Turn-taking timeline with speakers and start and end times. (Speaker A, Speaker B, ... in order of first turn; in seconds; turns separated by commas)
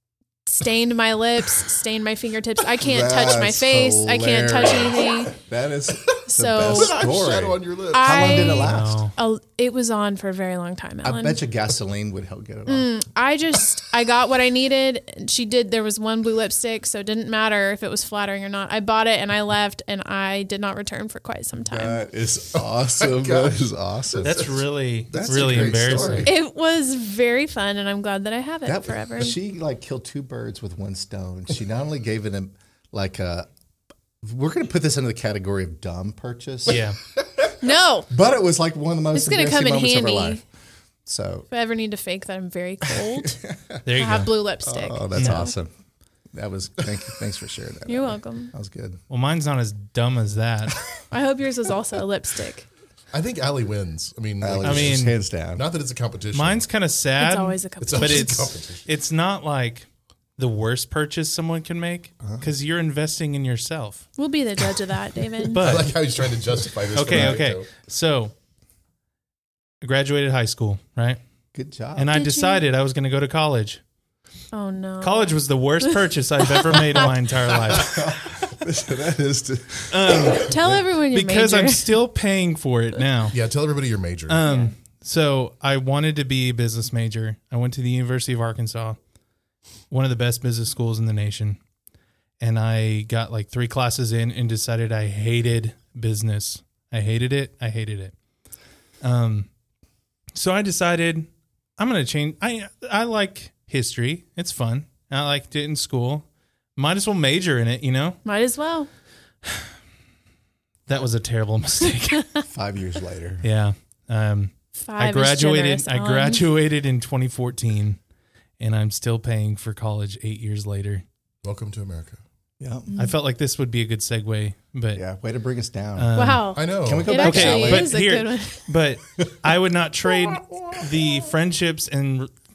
Speaker A: 0.5-5.3, Speaker B: 2.8-9.1, Speaker C: 6.1-8.3, Speaker A: 6.3-7.0, Speaker A: 7.9-11.4, Speaker D: 8.3-9.1, Speaker B: 11.0-12.9, Speaker A: 12.7-22.0, Speaker B: 21.6-24.6, Speaker C: 22.5-24.6, Speaker D: 24.2-26.3, Speaker B: 25.1-26.3, Speaker C: 25.2-26.2, Speaker A: 26.2-29.3, Speaker B: 28.6-33.5, Speaker B: 34.2-36.8, Speaker D: 36.7-37.0, Speaker A: 37.6-38.1, Speaker B: 38.1-40.4, Speaker A: 39.1-40.4, Speaker B: 41.0-41.5, Speaker A: 41.5-43.4, Speaker B: 43.2-45.7, Speaker D: 43.9-44.3, Speaker A: 43.9-45.5, Speaker D: 45.1-45.5, Speaker B: 46.3-49.0, Speaker A: 47.9-48.5, Speaker D: 49.1-50.8, Speaker A: 51.1-52.7, Speaker C: 53.1-56.6, Speaker B: 54.4-55.6, Speaker D: 54.6-55.1, Speaker D: 56.3-64.1, Speaker A: 57.2-58.5, Speaker C: 57.8-58.9, Speaker B: 62.2-62.5, Speaker A: 64.2-65.7, Speaker D: 65.5-65.9, Speaker C: 65.6-67.7, Speaker D: 67.0-68.3, Speaker D: 69.8-71.2, Speaker B: 71.5-72.1, Speaker D: 72.0-73.8, Speaker A: 72.1-72.6, Speaker A: 74.5-76.0, Speaker D: 75.0-78.1, Speaker A: 76.7-77.0, Speaker B: 77.7-80.4, Speaker D: 79.9-80.6, Speaker A: 80.4-81.9, Speaker D: 81.1-83.4, Speaker C: 83.3-84.4, Speaker D: 84.3-89.0, Speaker A: 84.4-84.7, Speaker D: 89.9-91.6, Speaker D: 92.4-98.1, Speaker D: 99.0-99.5, Speaker D: 100.3-108.2, Speaker A: 108.2-108.9, Speaker D: 110.9-112.2, Speaker B: 112.5-113.5, Speaker D: 113.4-118.0, Speaker A: 114.8-116.5, Speaker D: 118.6-121.0, Speaker C: 121.4-122.2, Speaker B: 122.6-122.9, Speaker A: 122.9-123.1, Speaker D: 123.0-125.0, Speaker B: 125.0-128.0, Speaker D: 126.0-126.6, Speaker A: 126.1-128.7, Speaker C: 126.5-127.2, Speaker D: 127.1-132.3